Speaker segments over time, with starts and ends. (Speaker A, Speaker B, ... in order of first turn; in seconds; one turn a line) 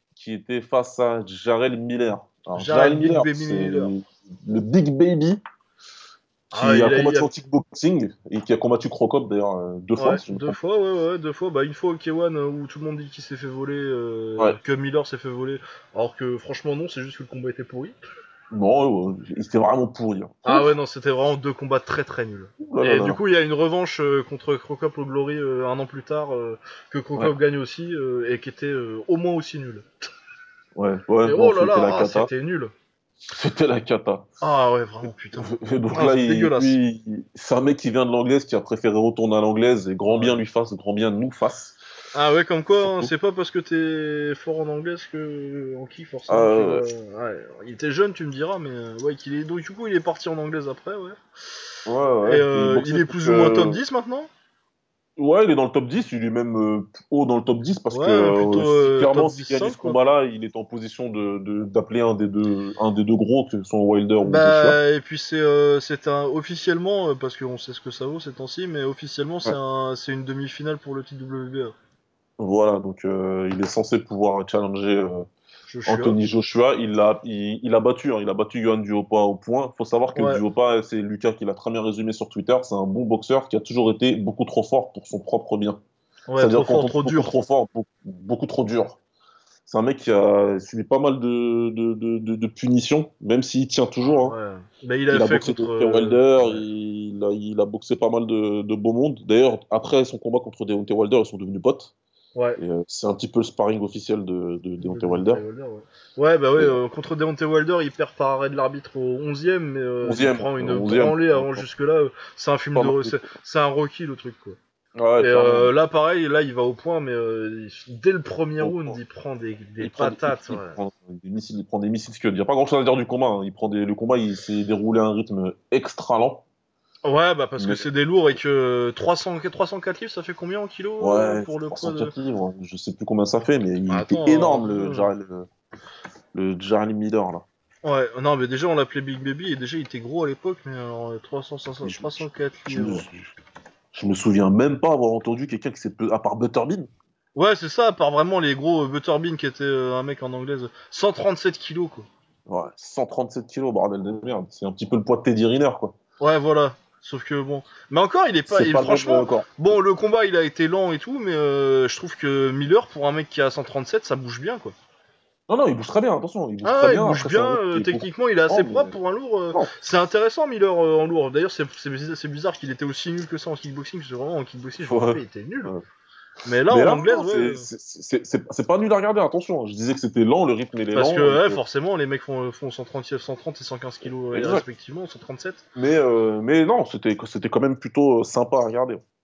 Speaker A: 0.1-5.4
Speaker B: 2.5-3.9
Speaker A: 6.5-10.6
Speaker B: 6.5-7.3
Speaker B: 10.0-17.9
Speaker A: 18.5-20.8
Speaker B: 20.4-29.9
Speaker A: 22.6-23.2
Speaker A: 30.8-32.3
Speaker B: 31.2-32.7
Speaker A: 33.3-34.3
Speaker B: 34.4-36.8
Speaker A: 35.4-41.8
Speaker B: 42.1-51.2
Speaker A: 42.8-43.1
Speaker A: 46.3-46.9
Speaker A: 51.9-53.8
Speaker B: 52.2-54.3
Speaker A: 55.2-64.8
Speaker B: 57.9-60.0
Speaker B: 64.2-71.8
Speaker A: 72.4-75.3
Speaker B: 75.7-76.2
Speaker A: 75.9-85.8
Speaker B: 80.2-80.4
Speaker B: 86.3-87.3
Speaker A: 86.4-89.0
Speaker A: 89.7-94.4
Speaker B: 94.0-96.7
Speaker A: 95.1-101.9
Speaker B: 102.3-102.6
Speaker A: 102.6-105.4
Speaker B: 104.8-114.6
Speaker A: 110.0-111.7
Speaker A: 112.8-113.3
Speaker A: 115.0-115.7
Speaker B: 115.2-120.8
Speaker A: 118.6-119.0
Speaker A: 119.8-126.5
Speaker B: 127.0-132.1
Speaker A: 127.6-127.8
Speaker A: 131.0-135.5
Speaker B: 133.9-135.1
Speaker A: 136.3-137.5
Speaker B: 137.8-143.1
Speaker A: 141.8-143.3
Speaker A: 143.9-146.9
Speaker B: 147.3-152.1
Speaker A: 152.5-156.0
Speaker B: 156.2-164.7
Speaker A: 158.5-159.5
Speaker A: 165.5-169.0
Speaker B: 166.6-175.8
Speaker A: 174.8-175.8
Speaker B: 176.4-177.7
Speaker A: 176.7-181.6
Speaker B: 180.9-185.7
Speaker A: 184.3-184.7
Speaker A: 185.8-189.0